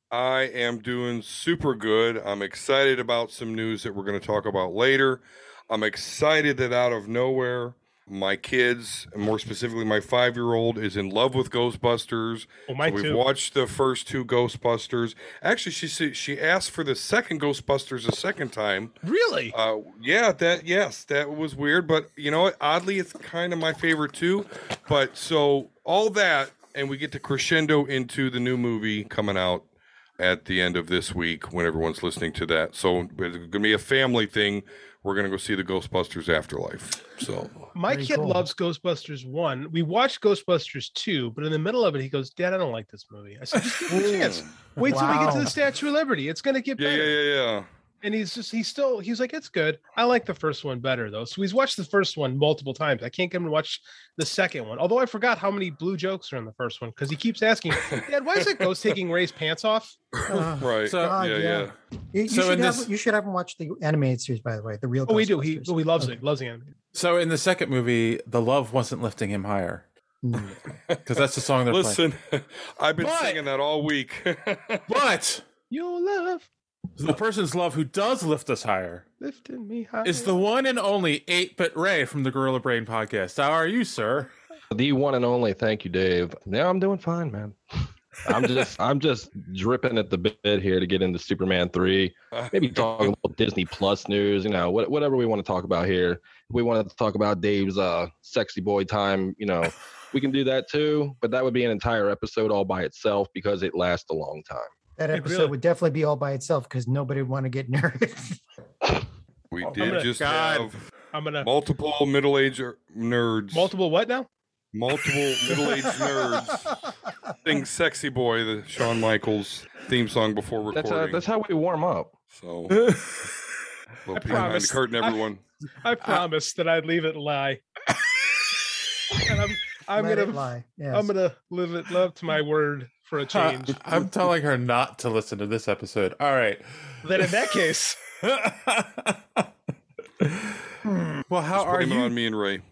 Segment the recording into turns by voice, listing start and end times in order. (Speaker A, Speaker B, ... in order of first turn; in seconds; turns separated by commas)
Speaker A: 0.1-18.9, Speaker B: 12.7-13.2, Speaker B: 19.0-19.5, Speaker A: 19.5-29.7, Speaker A: 30.2-37.7, Speaker B: 37.7-47.2, Speaker C: 37.9-38.5, Speaker D: 43.6-43.9, Speaker A: 43.9-44.5, Speaker C: 44.9-45.5, Speaker A: 46.8-47.7, Speaker B: 48.0-60.0, Speaker C: 60.3-66.2, Speaker A: 60.3-61.7, Speaker D: 60.8-61.2, Speaker D: 62.3-62.9, Speaker B: 65.1-66.7, Speaker D: 66.9-69.9, Speaker C: 70.2-70.6, Speaker D: 71.1-72.0, Speaker A: 71.7-74.8, Speaker D: 73.0-73.4, Speaker D: 74.9-75.4, Speaker B: 75.7-76.5, Speaker D: 77.0-79.0, Speaker B: 79.2-80.4, Speaker D: 80.0-84.3, Speaker E: 84.7-104.7, Speaker A: 92.3-93.1, Speaker C: 105.0-108.4, Speaker B: 105.1-105.5, Speaker A: 109.5-110.8, Speaker B: 109.7-110.2, Speaker D: 110.1-110.7, Speaker B: 111.1-111.5, Speaker A: 111.4-113.7, Speaker B: 113.5-114.3, Speaker A: 114.7-116.7, Speaker A: 117.4-121.2, Speaker E: 120.7-122.1, Speaker A: 122.3-122.9, Speaker D: 122.7-123.3, Speaker A: 124.1-125.4, Speaker B: 124.1-125.2, Speaker B: 125.8-127.6, Speaker B: 129.2-133.8, Speaker C: 129.9-131.1, Speaker D: 133.3-136.7, Speaker B: 137.0-138.0, Speaker D: 138.2-139.5, Speaker D: 140.2-140.7, Speaker C: 140.8-141.2, Speaker D: 141.3-142.2, Speaker A: 141.6-142.6